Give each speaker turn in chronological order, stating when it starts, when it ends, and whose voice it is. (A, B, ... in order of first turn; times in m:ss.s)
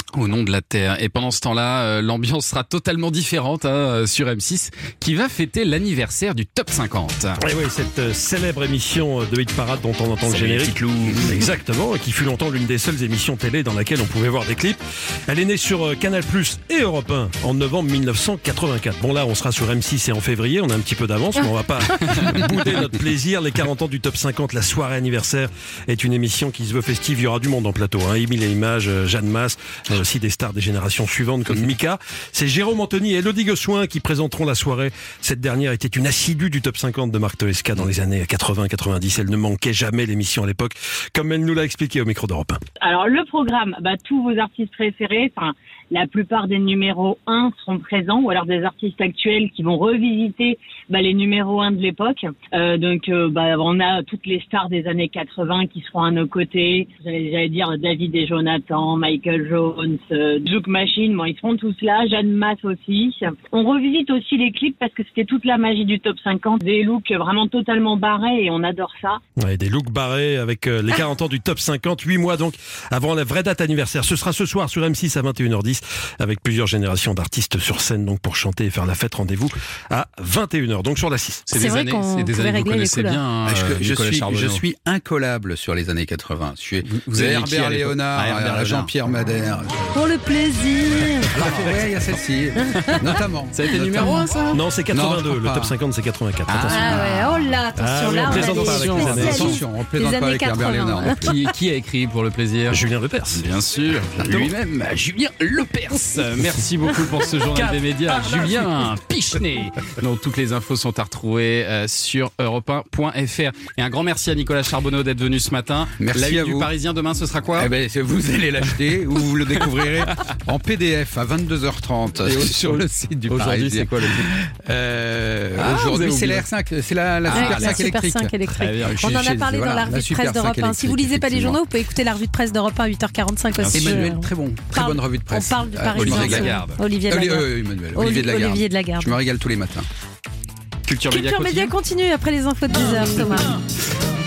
0:00.1-0:07.4 A
0:07.4-0:42.6 B
0:10.2-0:11.4 A
0:42.8-1:09.2 C
1:09.4-1:21.5 B
1:21.5-1:24.6 A
1:21.5-1:23.2 D
1:23.5-1:30.0 E
1:26.8-1:28.9 A
1:29.9-1:31.3 D
1:31.3-1:34.2 E
1:33.5-1:34.6 A
1:34.5-1:37.1 B
1:34.9-1:35.8 E
1:36.5-1:37.2 E
1:36.7-1:41.2 D
1:37.8-1:39.6 B
1:37.8-1:41.2 E
1:41.2-1:44.6 A
1:42.7-1:43.4 B
1:44.2-1:46.0 E
1:45.4-1:57.7 A
1:56.0-1:56.7 E
1:57.6-2:08.3 E
2:02.2-2:04.3 A
2:05.6-2:06.4 A
2:07.3-2:07.9 A
2:07.3-2:19.2 D
2:08.5-2:09.0 A
2:08.9-2:11.6 E
2:13.6-2:14.1 A
2:13.7-2:16.5 E
2:16.0-2:16.8 A
2:17.1-2:19.9 E
2:20.9-2:21.8 A
2:21.1-2:23.6 D
2:22.8-2:23.6 A